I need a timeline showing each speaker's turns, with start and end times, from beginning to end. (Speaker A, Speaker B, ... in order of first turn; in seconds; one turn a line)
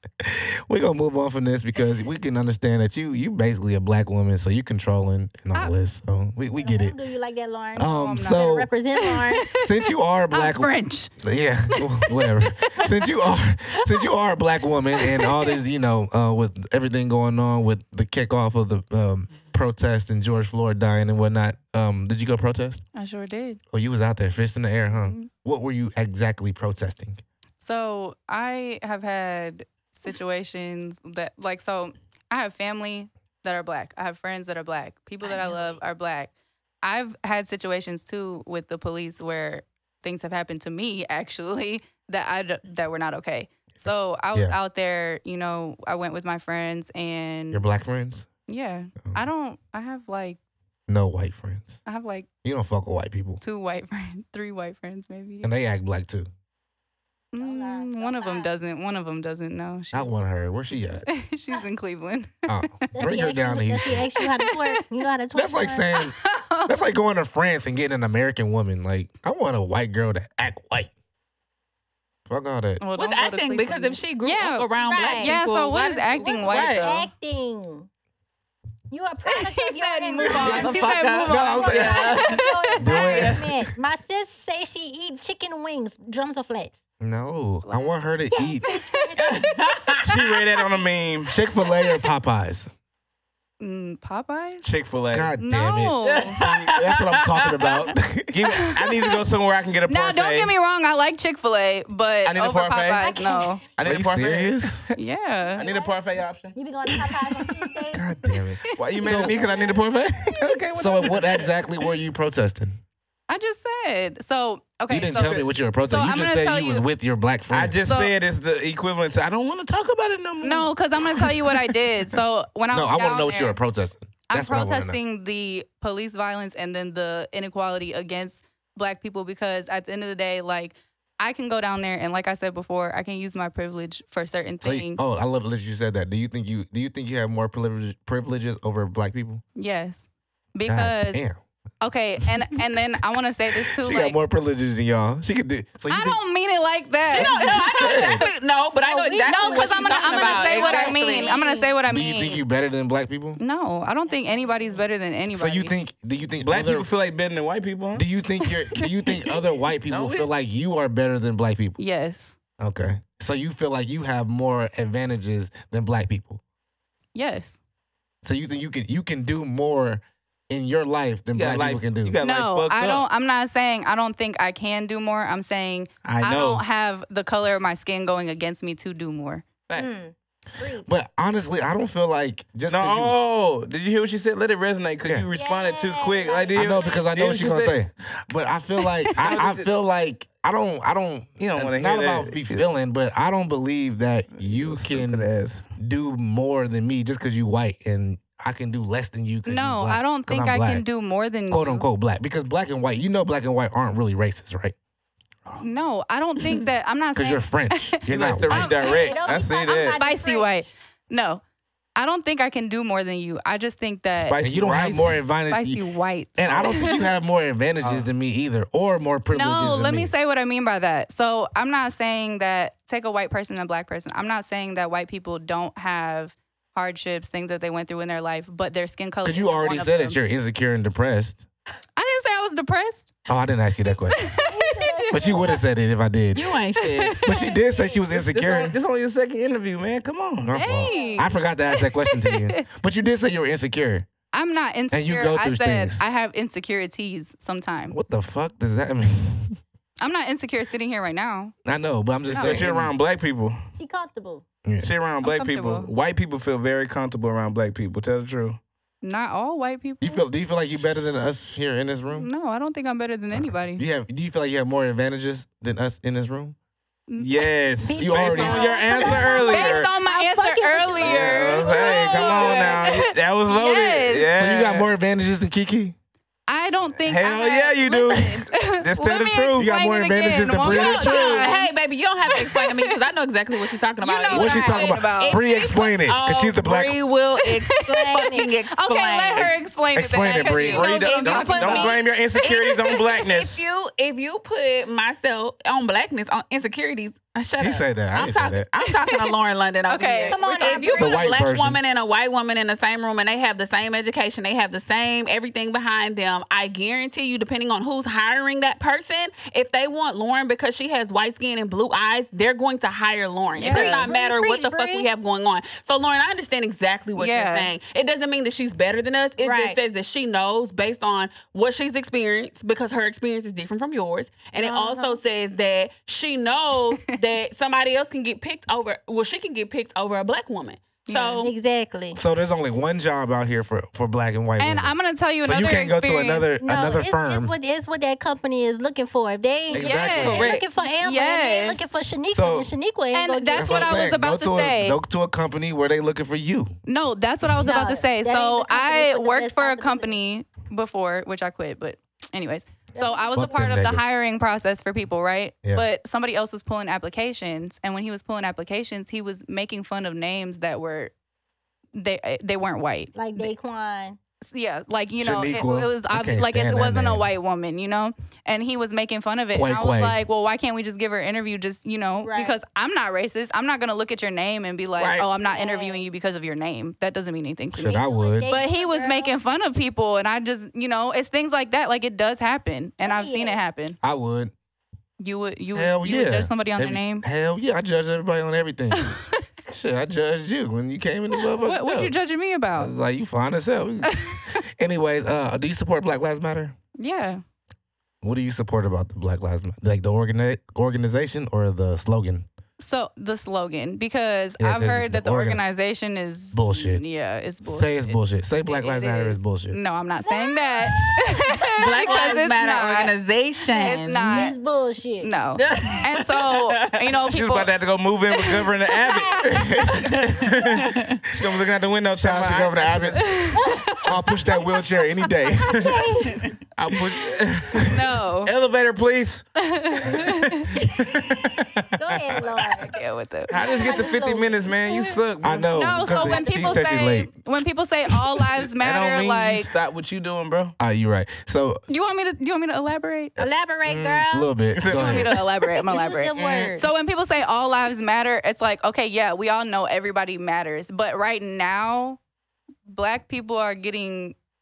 Speaker A: 0.2-7.0
Speaker B: 6.6-9.4
Speaker A: 7.8-8.7
Speaker C: 7.8-11.1
Speaker A: 9.5-22.8
Speaker C: 11.7-13.1
Speaker C: 13.8-14.1
Speaker C: 15.0-15.6
Speaker C: 22.9-23.6
Speaker A: 23.7-27.2
Speaker C: 24.9-25.3
Speaker C: 27.6-47.6
Speaker B: 35.2-35.8
Speaker A: 47.5-48.3
Speaker C: 48.5-50.4
Speaker A: 50.9-51.8
Speaker C: 51.8-52.3
Speaker A: 52.4-53.4
Speaker C: 53.4-55.5
Speaker A: 55.4-56.3
Speaker C: 57.3-60.1
Speaker B: 57.4-58.5
Speaker A: 59.9-61.0
Speaker C: 60.7-63.1
Speaker A: 62.5-64.0
Speaker B: 62.9-65.8
Speaker C: 64.1-64.8
Speaker A: 65.3-66.1
Speaker C: 65.9-66.7
Speaker A: 66.7-70.9
Speaker A: 72.3-72.8
Speaker C: 72.8-77.1
Speaker D: 72.9-76.9
Speaker B: 74.8-75.4
Speaker B: 76.1-77.9
Speaker B: 78.9-86.8
Speaker C: 79.2-83.3
Speaker A: 80.3-80.6
Speaker D: 80.4-82.4
Speaker A: 81.2-82.2
Speaker A: 82.8-83.4
Speaker D: 83.1-83.4
Speaker A: 87.0-88.6
Speaker C: 87.7-87.9
Speaker B: 88.3-89.5
Speaker C: 88.6-89.5
Speaker D: 89.3-90.1
Speaker E: 90.0-91.3
Speaker A: 91.3-92.7
Speaker C: 93.6-94.7
Speaker E: 94.6-95.3
Speaker A: 95.1-98.4
Speaker C: 95.4-96.4
Speaker D: 96.0-97.8
Speaker E: 98.3-100.5
Speaker C: 98.5-99.2
Speaker C: 99.9-103.7
Speaker E: 102.2-103.1
Speaker B: 103.0-103.6
Speaker E: 103.7-104.9
Speaker A: 103.8-104.8
Speaker C: 104.9-105.6
Speaker B: 105.5-105.9
Speaker E: 105.6-107.4
Speaker B: 106.5-108.1
Speaker A: 107.9-109.4
Speaker E: 108.8-111.5
Speaker B: 109.1-109.8
Speaker A: 110.7-112.8
Speaker C: 113.3-116.8
Speaker A: 114.9-117.8
Speaker E: 115.0-115.5
Speaker E: 117.5-121.3
Speaker C: 117.8-118.1
Speaker C: 120.4-123.6
Speaker A: 122.7-125.0
Speaker C: 124.3-135.0
Speaker A: 134.6-139.4
Speaker C: 139.5-141.2
Speaker A: 140.7-141.4
Speaker C: 141.8-144.2
Speaker A: 143.6-146.2
Speaker C: 145.9-148.2
Speaker D: 147.0-151.5
Speaker A: 147.1-148.2
Speaker B: 148.8-151.7
Speaker C: 149.2-152.4
Speaker A: 151.8-153.4
Speaker C: 153.4-155.7
Speaker B: 154.0-154.8
Speaker A: 155.3-156.9
Speaker E: 156.4-158.1
Speaker A: 157.9-161.8
Speaker D: 159.9-160.2
Speaker C: 161.8-162.4
Speaker A: 162.6-166.4
Speaker C: 167.1-167.6
Speaker A: 168.2-172.2
Speaker E: 171.3-173.0
Speaker C: 172.2-179.5
Speaker E: 176.0-176.6
Speaker B: 179.8-180.9
Speaker A: 180.8-183.2
Speaker E: 182.7-187.7
Speaker B: 185.3-187.0
Speaker A: 186.5-200.8
Speaker E: 189.2-189.7
Speaker E: 191.4-192.6
Speaker E: 194.3-195.7
Speaker C: 199.4-201.8
Speaker A: 201.5-204.7
Speaker C: 205.6-211.4
Speaker D: 206.4-206.7
Speaker A: 207.1-208.7
Speaker E: 208.1-210.0
Speaker B: 208.8-210.7
Speaker C: 211.9-214.4
Speaker E: 214.1-215.2
Speaker A: 214.4-215.8
Speaker C: 215.5-217.1
Speaker A: 216.4-220.1
Speaker E: 217.8-218.1
Speaker C: 219.3-230.2
Speaker A: 229.2-231.4
Speaker C: 231.9-233.1
Speaker A: 233.3-234.2
Speaker C: 234.1-235.2
Speaker B: 234.4-235.6
Speaker A: 235.1-236.5
Speaker D: 236.3-237.2
Speaker C: 236.8-237.6
Speaker A: 237.2-238.8
Speaker B: 237.7-238.0
Speaker E: 238.1-240.5
Speaker A: 240.4-244.1
Speaker C: 240.5-242.6
Speaker B: 240.7-241.3
Speaker C: 244.3-248.0
Speaker A: 244.9-246.0
Speaker A: 247.9-249.6
Speaker C: 250.0-251.5
Speaker A: 251.6-252.9
Speaker C: 252.3-252.6
Speaker E: 252.3-253.6
Speaker B: 253.7-254.4
Speaker A: 254.6-254.9
Speaker E: 254.8-258.6
Speaker C: 255.2-255.9
Speaker C: 259.0-260.2
Speaker A: 260.0-262.3
Speaker C: 262.1-263.8
Speaker A: 263.3-266.6
Speaker C: 267.1-267.5
Speaker E: 267.2-269.9
Speaker B: 267.8-272.8
Speaker A: 268.0-268.8
Speaker C: 268.5-274.3
Speaker E: 271.0-274.9
Speaker D: 272.1-272.8
Speaker A: 274.3-275.9
Speaker C: 276.5-281.7
Speaker E: 277.0-279.7
Speaker A: 279.5-281.5
Speaker D: 280.6-289.6
Speaker C: 282.3-283.0
Speaker C: 284.0-285.4
Speaker A: 284.3-287.0
Speaker C: 287.4-292.0
Speaker B: 287.8-288.5
Speaker A: 289.9-290.8
Speaker D: 290.2-331.5
Speaker E: 290.6-293.6
Speaker A: 297.6-298.7
Speaker C: 298.8-299.3
Speaker C: 299.9-300.8
Speaker B: 300.3-301.4
Speaker A: 301.0-301.8
Speaker C: 313.6-314.1
Speaker B: 313.6-315.1
Speaker C: 317.1-317.7
Speaker B: 319.4-319.8
Speaker B: 324.5-325.2
Speaker C: 331.0-331.4
Speaker B: 331.4-332.2
Speaker A: 332.1-337.5
Speaker C: 334.6-336.4
Speaker B: 336.6-343.9
Speaker A: 339.7-340.5
Speaker C: 339.7-341.9
Speaker D: 340.3-340.6
Speaker A: 342.3-342.7
Speaker C: 343.1-345.0
Speaker A: 343.5-346.8
Speaker C: 346.9-361.1
Speaker B: 347.6-350.2
Speaker B: 352.9-353.3
Speaker A: 353.3-354.0
Speaker C: 361.9-363.5
Speaker B: 363.1-364.2
Speaker C: 364.4-384.0
Speaker A: 365.2-367.3
Speaker A: 369.5-370.1
Speaker B: 372.2-372.6
Speaker D: 375.0-375.3
Speaker B: 375.4-376.0
Speaker A: 377.7-378.5
Speaker B: 377.8-379.3
Speaker B: 383.0-383.6
Speaker A: 384.0-384.5
Speaker C: 385.2-387.2
Speaker A: 385.7-392.1
Speaker C: 388.9-389.4
Speaker C: 391.6-392.9
Speaker A: 392.8-394.2
Speaker C: 394.0-394.6
Speaker A: 394.8-396.7
Speaker C: 397.0-397.4
Speaker A: 398.2-402.5
Speaker C: 402.8-413.1
Speaker A: 404.6-405.6
Speaker A: 406.5-407.0
Speaker A: 407.6-409.8
Speaker B: 410.2-411.1
Speaker D: 411.8-414.4
Speaker B: 412.0-412.5
Speaker C: 413.6-414.6
Speaker B: 414.2-415.3
Speaker C: 415.2-417.7
Speaker D: 415.6-417.2
Speaker E: 417.2-423.3
Speaker C: 418.4-418.7
Speaker B: 419.1-419.5
Speaker C: 419.4-419.8
Speaker D: 419.9-421.2
Speaker A: 422.1-423.3
Speaker C: 423.2-424.1
Speaker B: 423.5-424.1
Speaker A: 424.0-426.0
Speaker B: 425.6-426.5
Speaker E: 426.8-432.4
Speaker C: 427.8-428.5
Speaker C: 429.6-430.7
Speaker B: 431.9-432.9
Speaker C: 432.8-434.1
Speaker E: 433.5-435.7
Speaker B: 433.5-435.2
Speaker A: 435.4-437.3
Speaker C: 435.7-439.7
Speaker B: 436.1-436.9
Speaker E: 438.8-440.7
Speaker A: 440.8-441.8
Speaker C: 441.9-443.4
Speaker B: 443.4-444.5
Speaker A: 443.8-445.4
Speaker E: 444.8-445.7
Speaker C: 444.9-452.2
Speaker B: 445.8-446.9
Speaker E: 446.4-446.6
Speaker C: 452.9-454.4